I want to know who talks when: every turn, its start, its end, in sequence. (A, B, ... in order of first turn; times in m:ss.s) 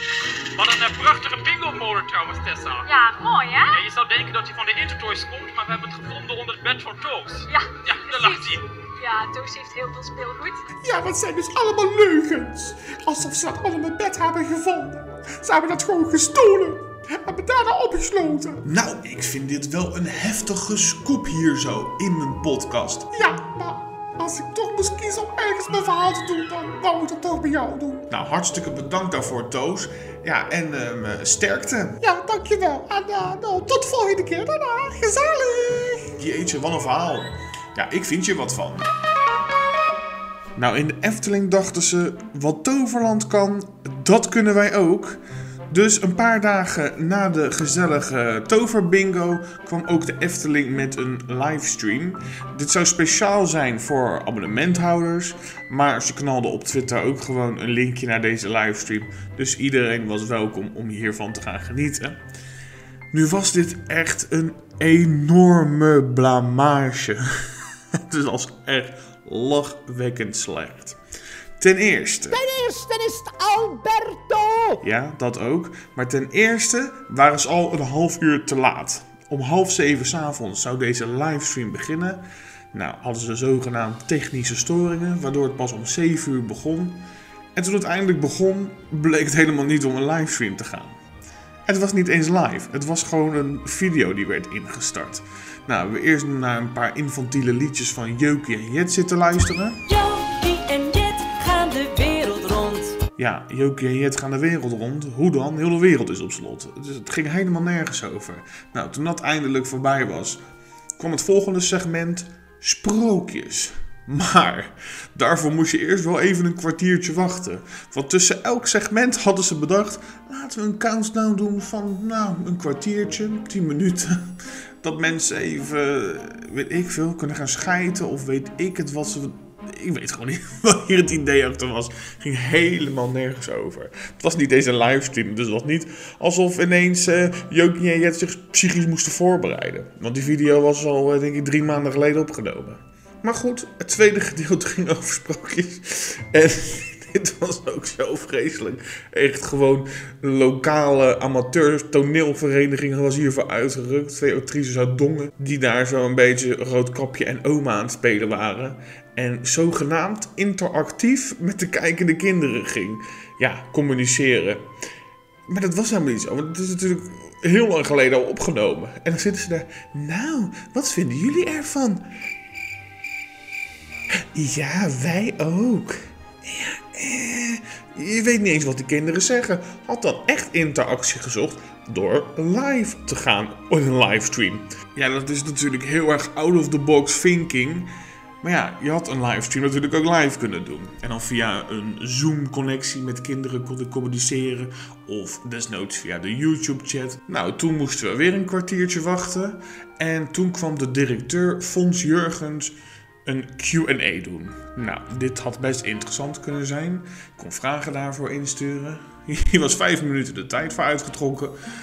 0:00.6-0:08.6 A
0:02.9-0:03.7 B
0:09.0-0:10.5 B
0:09.4-0:10.4 A
0:10.8-0:18.6 C
0:18.6-0:23.2 D
0:23.2-0:28.0 C
0:28.1-0:32.0 D
0:32.0-0:36.0 C
0:36.2-0:38.9 D
0:40.6-1:02.2 D
1:03.1-1:07.2 D
1:08.1-1:11.0 D
1:11.6-1:12.4 D
1:12.3-1:14.8 E
1:14.8-1:27.0 D
1:27.5-1:30.9 D
1:31.6-1:39.8 D
1:39.9-1:43.0 F
1:43.2-1:50.4 D
1:51.0-2:04.2 D
2:04.8-2:44.6 D
2:45.5-2:52.1 D
2:54.3-3:07.9 D
3:08.4-3:22.7 D
3:23.2-3:31.5 D